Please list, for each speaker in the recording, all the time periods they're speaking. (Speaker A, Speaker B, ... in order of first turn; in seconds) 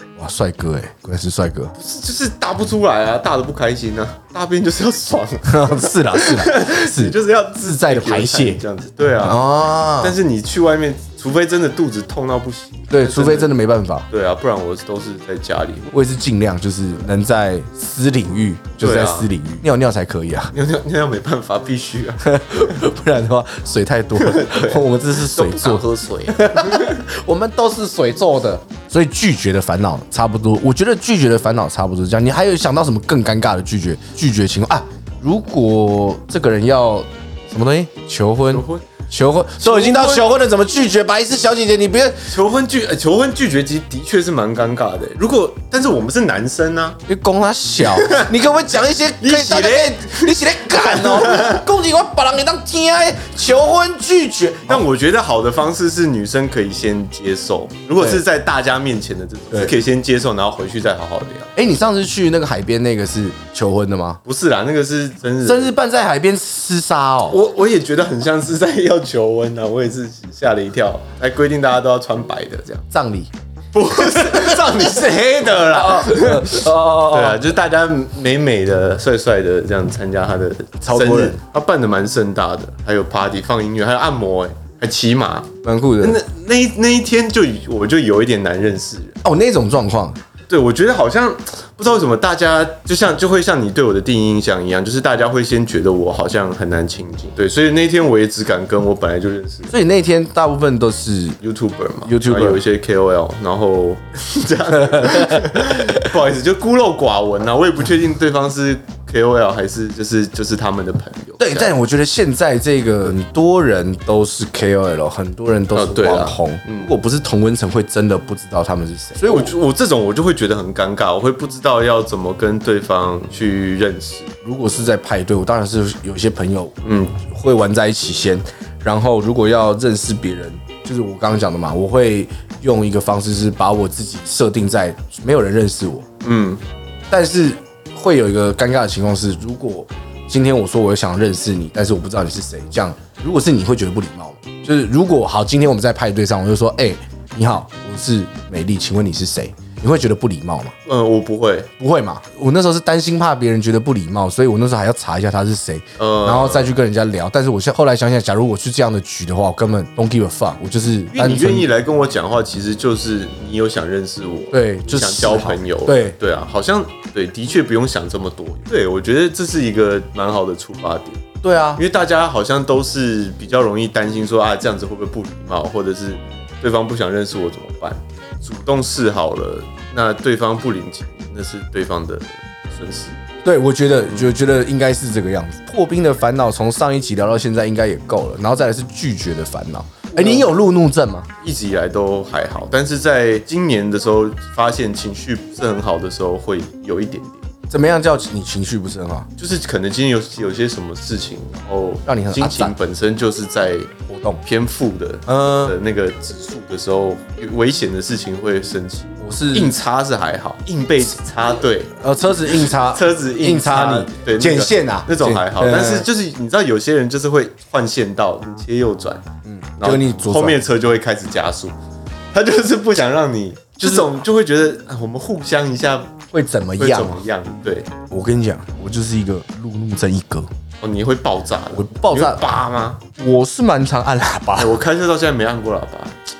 Speaker A: 0.2-1.8, 5.5-8.6, 9.2-10.2, 12.9-14.1, 15.9-20.5, 22.2-42.3, 47.1-54.9, 58.0-58.2, 61.6-64.2, 65.4-67.4, 72.9-73.3, 74.0-74.8, 75.6-77.5, 80.8-81.4, 85.6-86.2, 89.2-90.2, 99.7-101.4, 102.0-102.6, 104.7-106.1, 111.4-119.5, 124.4-136.1, 137.1-150.8, 151.8-161.7, 164.5-166.2, 171.4-171.8, 183.4-191.3, 197.7-199.3, 202.1-202.8, 204.1-204.4, 205.3-205.8, 209.2-209.8, 212.0-216.1, 219.4-220.6, 223.8-224.1, 226.3-227.2, 228.1-230.5, 231.7-232.5, 233.2-234.8
Speaker B: 1.8-9.5, 10.0-13.5, 14.1-15.9, 18.8-19.3, 20.5-22.7, 24.2-27.0, 38.5-38.9, 39.6-40.3, 42.3-47.0, 47.8-48.3, 49.2-51.6, 54.7-61.5, 64.2-65.7, 67.3-72.9, 73.7-89.2, 90.5-99.8, 101.4-111.7, 115.7-116.9, 119.2-124.3, 126.8-127.2, 136.2-136.6, 150.9-151.7, 156.0-156.7, 161.1-171.2, 171.8-183.2, 184.1-184.3, 190.1-190.5, 191.4-197.5, 199.4-211.9, 212.5-219.2, 219.8-221.7, 222.3-226.2, 226.8-227.9, 230.8-233.0, 234.6-236.2